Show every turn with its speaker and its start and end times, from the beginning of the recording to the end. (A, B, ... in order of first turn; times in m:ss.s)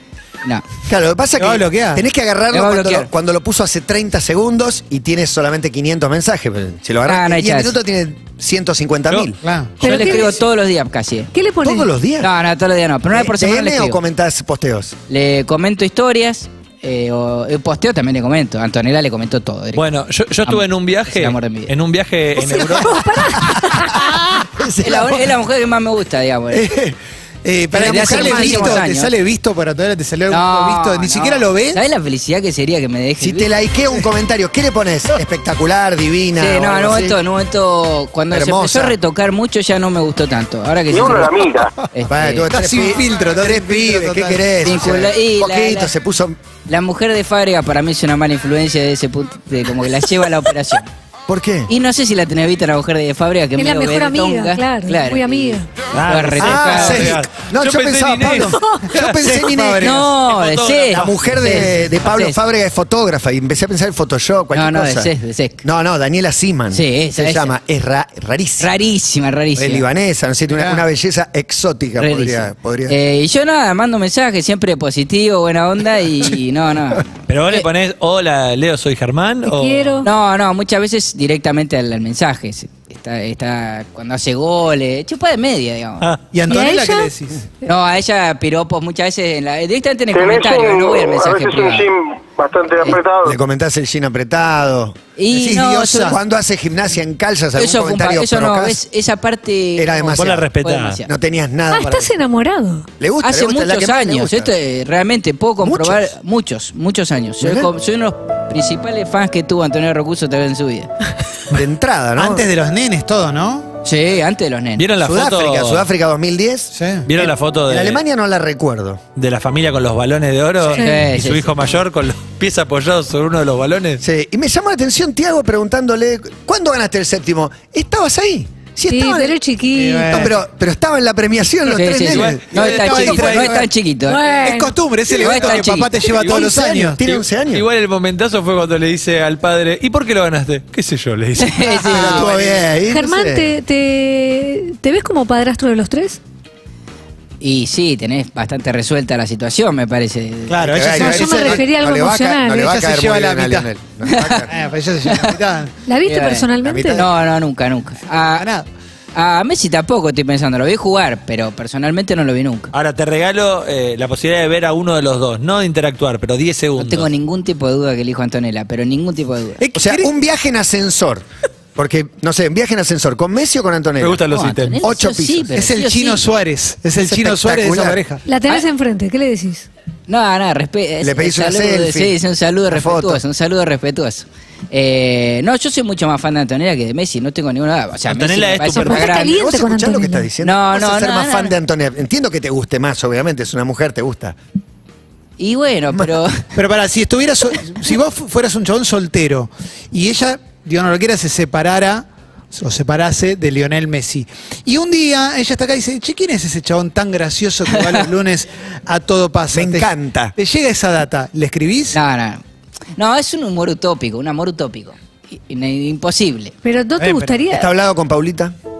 0:00.8-0:09.4 A
0:01.4-0:02.0 B
0:02.5-0:03.1 C
0:07.0-0:07.8 C
0:09.4-0:09.9 B
0:09.8-0:10.4 D
0:09.8-0:11.3 C
0:11.3-0:11.9 D
0:11.6-0:12.3 A
0:12.2-0:14.0 C
0:13.1-0:15.0 A
0:15.1-0:19.8 C
0:19.7-0:22.9 E
0:20.4-0:21.7 C
0:22.4-0:25.3 A
0:22.5-0:24.0 D
0:24.8-0:26.6 C
0:26.5-0:27.0 A
0:27.4-0:31.8 B
0:27.7-0:28.9 A
0:27.7-0:29.1 C
0:30.3-0:33.5 C
0:33.2-0:37.2 A
0:36.4-0:41.4 C
0:38.3-0:39.0 A
0:40.9-0:41.7 F
0:41.9-0:42.5 C
0:42.0-0:46.4 A
0:42.5-0:44.5 B
0:44.6-0:45.9 C
0:46.7-0:50.9 C
0:51.3-0:51.7 A
0:51.7-0:57.2 C
0:53.6-0:55.6 D
0:55.9-0:59.2 E
0:56.4-1:00.1 A
0:59.0-1:00.0 B
0:59.8-1:02.4 C
1:00.0-1:01.3 E
1:00.9-1:08.7 A
1:04.5-1:05.6 C
1:06.7-1:07.5 C
1:08.6-1:09.8 C
1:09.5-1:13.0 A
1:10.5-1:10.8 B
1:12.0-1:17.6 C
1:17.3-1:20.0 E
1:19.4-1:20.1 D
1:20.0-1:26.1 C
1:26.3-1:27.4 B
1:26.5-1:27.1 D
1:27.6-1:31.9 C
1:30.1-1:33.4 F
1:33.2-1:35.0 A
1:35.2-1:36.2 C
1:35.3-1:36.2 B
1:36.0-1:38.8 A
1:37.5-1:41.1 C
1:39.8-1:40.5 A
1:40.2-1:41.0 E
1:41.0-1:42.1 A
1:41.7-1:42.9 D
1:43.0-1:44.5 A
1:43.2-1:50.9 C
1:45.6-1:46.1 A
1:47.4-1:47.7 A
1:51.5-1:52.4 A
1:52.2-1:53.7 B
1:53.8-1:54.8 C
1:54.8-1:55.9 E
1:55.0-1:59.0 A
1:56.7-1:57.0 B
1:57.0-1:58.0 E
1:59.2-2:04.0 E
2:00.7-2:01.5 C
2:00.7-2:01.0 D
2:04.0-2:09.4 A
2:08.9-2:10.3 D
2:09.7-2:10.3 B
2:10.1-2:12.5 A
2:11.7-2:14.2 C
2:12.0-2:13.6 E
2:12.5-2:13.7 B
2:14.1-2:14.8 D
2:14.4-2:17.0 B
2:15.1-2:15.9 C
2:16.1-2:17.6 A
2:16.1-2:16.5 E
2:17.5-2:21.9 E
2:21.4-2:22.3 C
2:21.8-2:22.7 B
2:21.9-2:23.5 A
2:22.9-2:26.2 D
2:27.4-2:30.6 C
2:30.5-2:31.6 B
2:30.6-2:34.5 A
2:31.0-2:32.7 D
2:32.5-2:33.7 B
2:34.0-2:34.5 C
2:34.5-2:35.7 B
2:35.0-2:35.3 C
2:35.9-2:37.0 D
2:36.0-2:38.5 C
2:36.6-2:37.1 A
2:38.2-2:38.7 B
2:39.1-2:42.7 C
2:42.7-2:47.1 E
2:46.8-2:49.6 C
2:49.6-2:50.1 B
2:49.7-2:51.2 A
2:51.8-2:54.2 A
2:54.0-2:54.8 E
2:54.3-2:56.2 C
2:54.8-2:55.6 A
2:55.5-2:58.2 B
2:57.0-2:58.0 A
2:58.2-2:59.7 D
3:00.1-3:09.3 C
3:01.0-3:03.2 A
3:08.1-3:09.1 E
3:08.7-3:10.3 D
3:09.1-3:14.4 A
3:10.4-3:11.5 C
3:15.4-3:16.5 C
3:16.5-3:32.0 B
3:29.5-3:30.3 A
3:31.9-3:32.4 C
3:33.0-3:36.5 C
3:36.6-3:37.7 D
3:37.0-3:37.4 B
3:37.5-3:38.5 A